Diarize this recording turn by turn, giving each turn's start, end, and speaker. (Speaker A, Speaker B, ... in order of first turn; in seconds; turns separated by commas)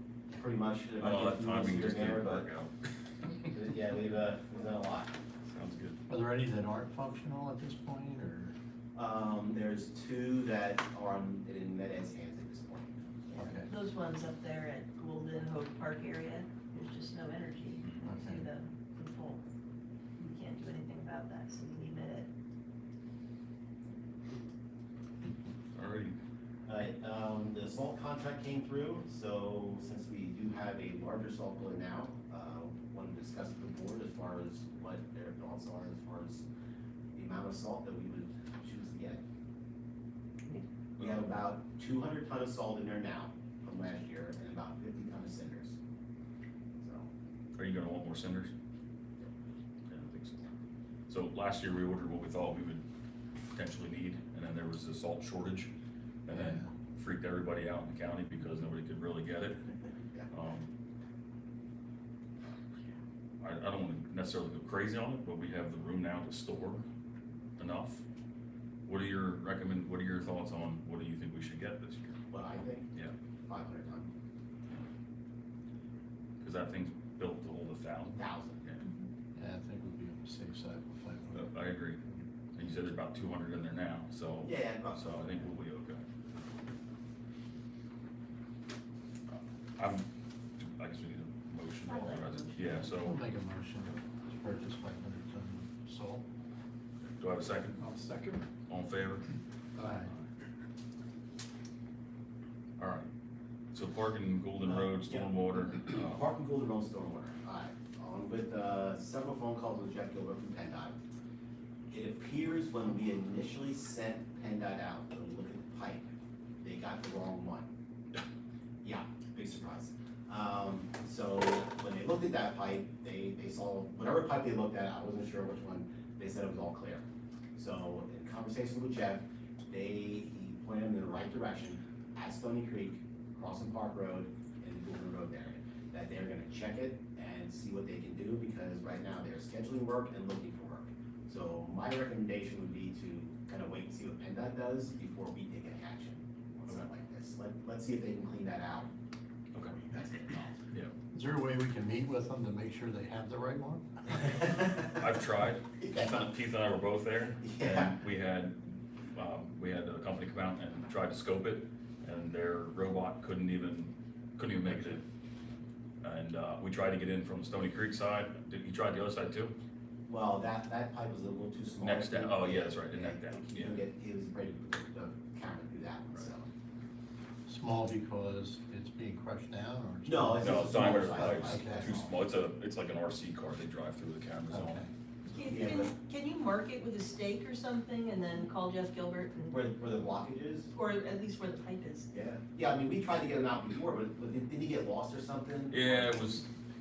Speaker A: 0.3-2.5, Speaker B: 1.0-3.5, Speaker A: 3.5-5.2, Speaker B: 5.5-6.0, Speaker C: 6.1-8.6, Speaker A: 8.9-13.0, Speaker D: 13.3-19.4, Speaker C: 13.4-13.7, Speaker B: 17.8-18.1, Speaker C: 18.0-18.5, Speaker D: 20.2-22.3, Speaker B: 25.7-26.2, Speaker A: 26.7-36.5, Speaker A: 37.1-39.2, Speaker A: 41.0-45.8, Speaker A: 46.8-47.1, Speaker B: 47.6-48.5, Speaker B: 49.9-50.4, Speaker B: 51.1-52.8, Speaker B: 53.5-55.7, Speaker B: 56.2-59.6, Speaker C: 56.3-56.7, Speaker B: 60.3-60.7, Speaker B: 63.4-66.9, Speaker B: 67.6-68.0, Speaker B: 68.9-72.2, Speaker A: 72.3-72.9, Speaker A: 73.5-74.1, Speaker B: 76.4-78.8, Speaker A: 78.2-78.6, Speaker C: 79.3-81.5, Speaker B: 81.3-82.0, Speaker B: 82.5-86.0, Speaker A: 84.4-85.5, Speaker B: 89.8-90.0, Speaker B: 90.6-93.2, Speaker D: 91.9-93.0, Speaker C: 92.9-96.2, Speaker B: 97.1-97.8, Speaker C: 97.8-98.4, Speaker B: 98.7-99.2, Speaker C: 99.8-100.1, Speaker B: 102.8-103.1, Speaker B: 103.7-106.2, Speaker A: 104.6-111.0, Speaker A: 111.9-116.1, Speaker A: 116.6-117.7, Speaker A: 118.8-148.9, Speaker A: 149.6-150.6, Speaker C: 151.1-154.3, Speaker A: 154.3-155.0, Speaker B: 155.0-165.0, Speaker A: 157.4-158.0, Speaker B: 166.0-169.6, Speaker A: 170.1-176.5, Speaker B: 171.8-173.8, Speaker C: 177.5-181.9, Speaker A: 180.1-182.2, Speaker B: 180.4-184.8, Speaker C: 184.5-184.9, Speaker D: 185.3-189.6, Speaker A: 185.4-185.9, Speaker A: 189.5-190.7, Speaker D: 190.7-192.1, Speaker A: 192.1-196.1, Speaker B: 195.7-196.5